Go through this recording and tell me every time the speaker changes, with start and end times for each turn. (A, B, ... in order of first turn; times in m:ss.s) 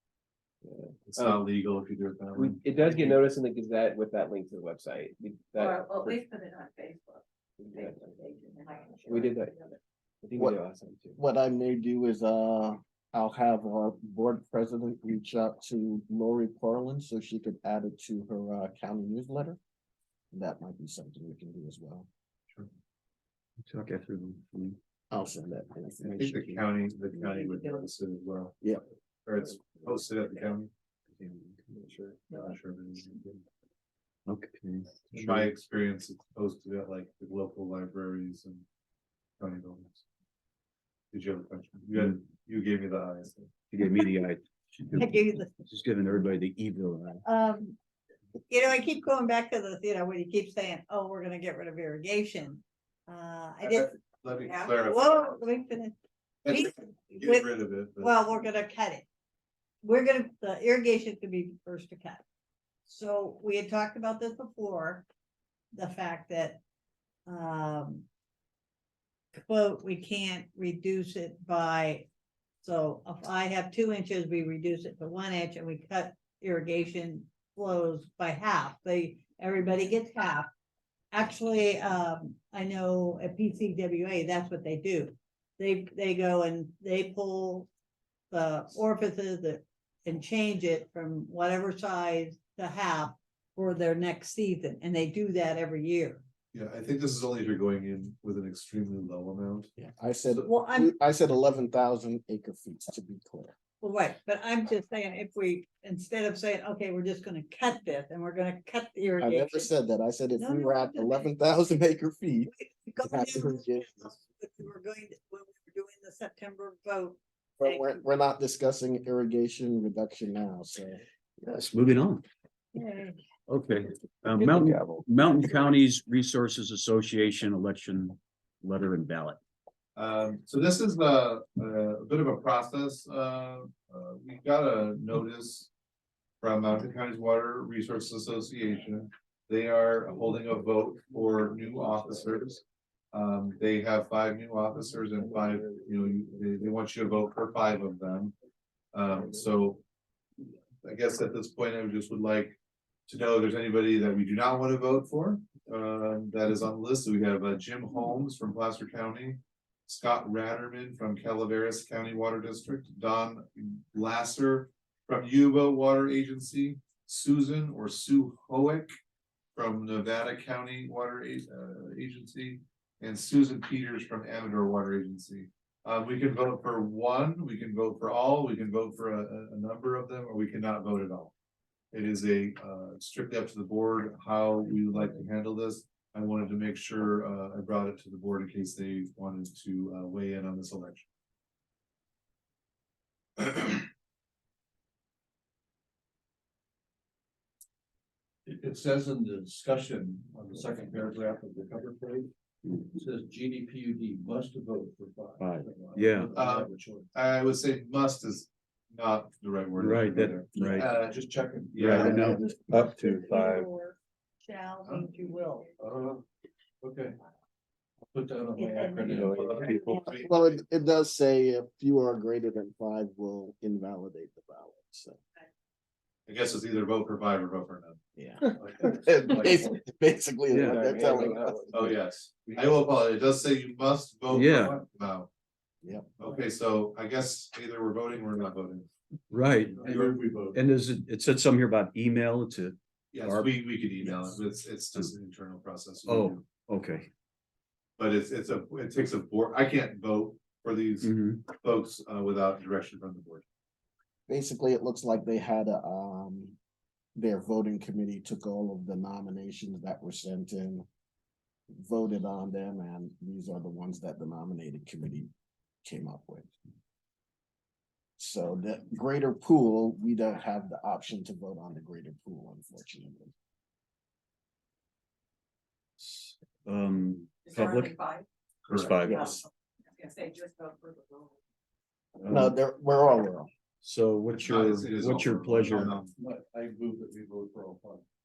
0:00.6-0:01.5 A
0:01.0-0:03.2 B
0:02.3-0:06.2 A
0:05.6-0:09.8 C
0:07.6-0:08.3 A
0:09.0-0:11.2 A
0:11.2-0:19.6 D
0:20.3-0:22.1 D
0:23.6-0:24.8 E
0:25.1-0:26.6 D
0:26.0-0:30.7 B
0:27.2-0:27.7 F
0:31.2-0:32.2 A
0:32.3-0:33.4 B
0:34.3-0:35.5 E
0:35.1-0:38.6 B
0:39.4-0:40.0 B
0:41.1-0:43.5 B
0:43.7-0:47.2 E
0:45.0-0:45.5 F
0:47.2-0:47.8 F
0:48.5-0:53.9 F
0:53.6-0:55.4 B
0:54.4-0:54.7 C
0:54.7-0:56.0 F
0:56.4-0:58.2 B
0:56.5-0:59.0 F
0:59.8-1:02.2 F
1:02.8-1:05.0 F
1:05.7-1:06.6 F
1:07.2-1:08.1 F
1:09.3-1:12.1 F
1:12.6-1:20.5 F
1:21.1-1:27.7 F
1:28.3-1:36.2 F
1:36.5-1:39.7 B
1:39.8-1:43.5 D
1:40.4-1:40.9 F
1:43.8-1:49.7 F
1:49.2-1:54.1 D
1:50.4-1:51.4 F
1:52.5-1:58.0 F
1:57.6-2:01.0 D
2:01.4-2:02.2 E
2:02.7-2:03.2 F
2:03.5-2:09.4 E
2:04.3-2:05.0 A
2:10.0-2:15.7 B
2:16.4-2:22.6 B
2:23.1-2:28.3 B
2:28.9-2:29.8 B
2:30.8-2:32.6 B
2:33.1-2:48.9 B
2:49.5-3:01.3 B
3:01.9-3:11.1 B
3:18.4-3:22.3 G
3:22.9-3:27.1 G
3:25.4-3:26.3 E
3:26.4-3:31.1 B
3:29.8-3:30.9 E
3:30.6-3:33.1 G
3:31.7-3:32.2 B
3:31.8-3:33.7 E
3:32.1-3:35.7 F
3:35.2-3:36.2 G
3:36.8-3:37.2 G
3:38.1-3:39.8 G
3:38.6-3:40.1 F
3:39.1-3:40.0 E
3:39.2-3:40.3 B
3:40.0-3:45.2 D
3:46.3-3:48.0 B
3:48.2-3:51.9 D
3:48.5-3:49.6 B
3:50.5-3:50.8 E
3:50.5-3:52.0 A
3:51.7-3:55.3 B
3:54.3-3:54.8 E
3:55.8-3:56.1 D
3:56.2-3:58.9 B
3:59.3-4:00.0 E
3:59.7-4:00.6 B
3:59.8-4:00.2 G
4:00.5-4:04.4 E
4:03.1-4:06.4 B
4:06.0-4:07.1 E
4:08.0-4:13.4 B
4:11.0-4:11.5 E
4:14.3-4:16.6 D
4:17.2-4:20.8 D
4:21.7-4:25.3 D
4:25.8-4:26.5 D
4:28.2-4:33.3 D
4:36.0-4:38.0 E
4:37.4-4:38.2 C
4:38.7-4:39.0 B
4:38.7-4:39.4 E
4:39.0-4:41.4 C
4:42.2-4:42.5 E
4:42.2-4:43.5 D
4:43.8-4:46.0 E
4:44.3-4:46.1 B
4:45.7-4:48.0 G